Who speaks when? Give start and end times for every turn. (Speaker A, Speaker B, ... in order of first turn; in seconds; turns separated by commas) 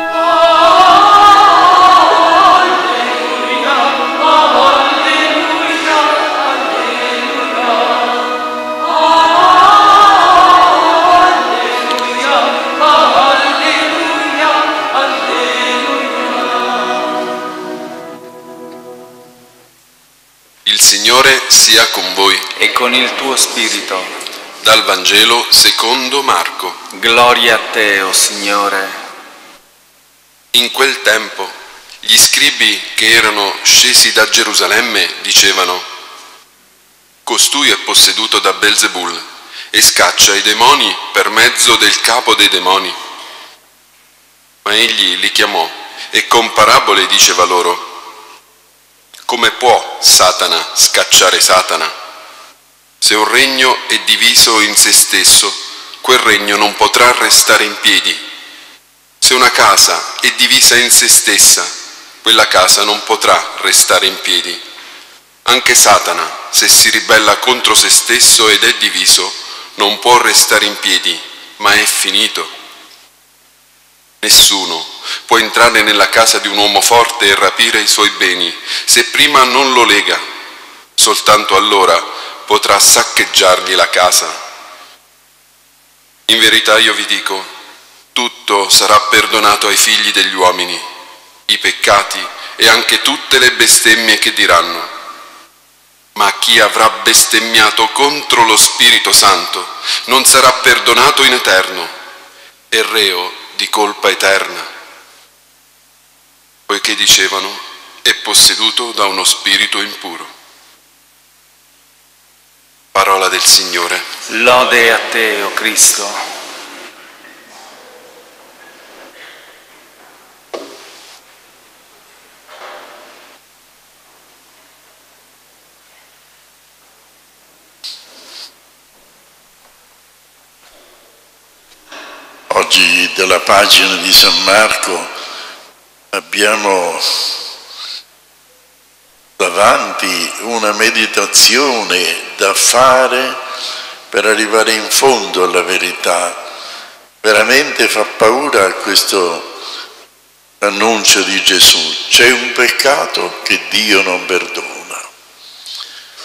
Speaker A: 20.6-22.4, Speaker B: 22.5-24.1, Speaker A: 24.6-26.8, Speaker B: 26.9-29.0, Speaker A: 30.5-35.9, Speaker A: 37.2-43.0, Speaker A: 44.6-47.9, Speaker A: 49.3-51.9, Speaker A: 53.0-58.2, Speaker A: 59.2-64.6, Speaker A: 65.4-72.5, Speaker A: 74.2-80.2, Speaker A: 81.0-84.3, Speaker A: 86.3-87.5, Speaker A: 88.1-90.8, Speaker A: 91.5-94.9, Speaker A: 96.1-101.9, Speaker A: 102.7-104.7, Speaker A: 106.7-110.3, Speaker A: 112.9-114.0, Speaker B: 114.3-116.2, Speaker C: 132.5-135.1, Speaker C: 136.1-137.2, Speaker C: 139.4-143.4, Speaker C: 144.1-146.4, Speaker C: 147.2-149.5, Speaker C: 150.6-155.1